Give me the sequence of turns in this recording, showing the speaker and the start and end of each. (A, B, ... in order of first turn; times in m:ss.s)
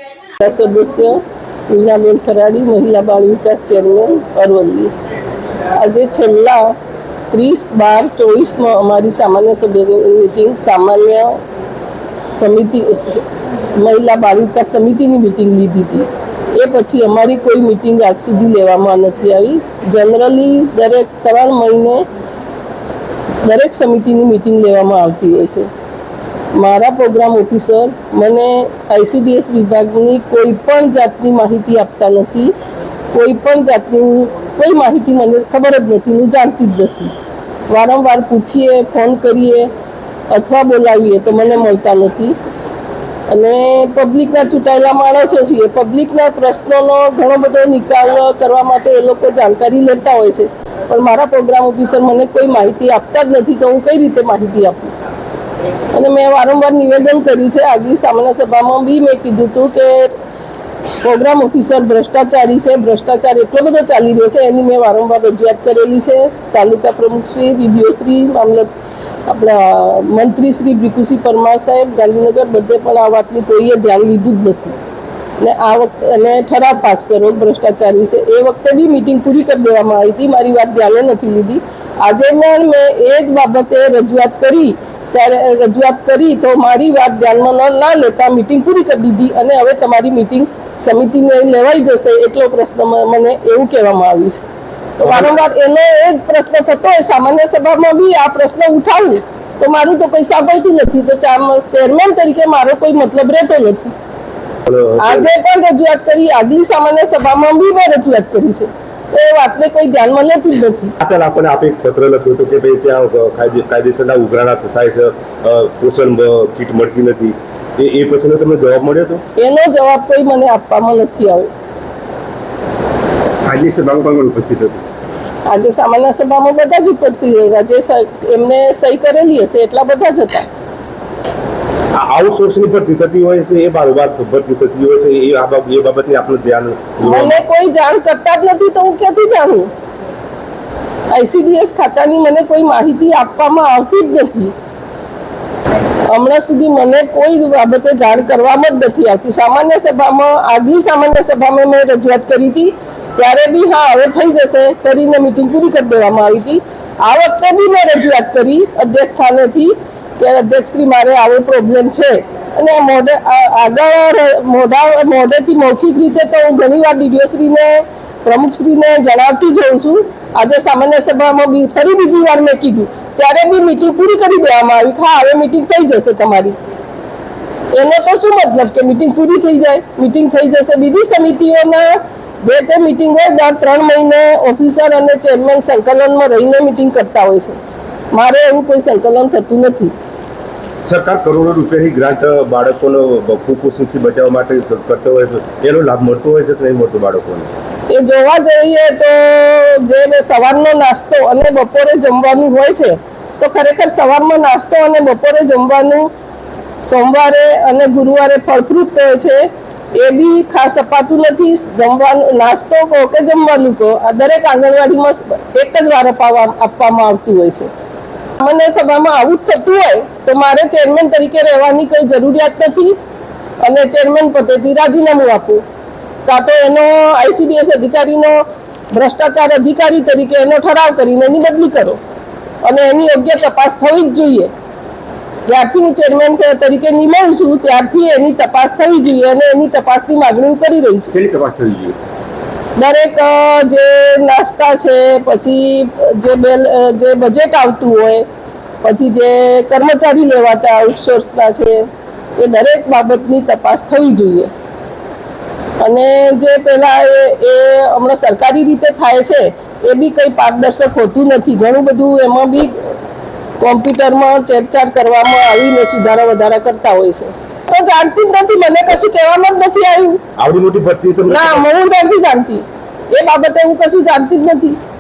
0:00.4-0:04.9 A
0:05.8-0:06.8 A
0:07.3-0:11.4 A
0:12.3-0:22.1 A
0:22.9-0:25.7 A
0:26.5-0:32.6 A
0:33.1-0:37.1 A
0:37.7-0:39.7 A
0:40.3-0:42.4 A
0:43.3-0:55.0 A
0:55.9-1:00.2 A
1:01.0-1:08.7 A
1:09.3-1:14.8 A
1:15.4-1:34.4 A
1:35.0-1:43.9 A
1:35.0-1:35.3 B
1:44.7-1:45.3 B
1:45.0-1:51.0 A
1:51.0-1:59.2 B
1:59.4-2:01.5 A
2:03.5-2:04.8 B
2:05.5-2:10.5 A
2:11.9-2:17.4 B
2:17.0-2:19.7 A
2:21.1-2:24.5 A
2:26.1-2:56.6 A
2:57.7-3:07.6 A
3:08.1-3:09.9 A
3:10.9-3:17.5 B
3:17.9-3:26.1 A
3:26.8-3:37.7 A
3:38.4-3:43.0 A
3:43.6-3:45.6 A
3:46.3-3:52.0 A
3:52.6-3:54.5 A
3:55.5-4:01.1 A
4:01.4-4:01.9 B
4:02.8-4:08.3 A
4:08.8-4:14.5 A
4:15.8-4:22.9 A
4:23.6-4:30.2 A
4:30.4-4:31.6 B
4:31.3-4:34.8 A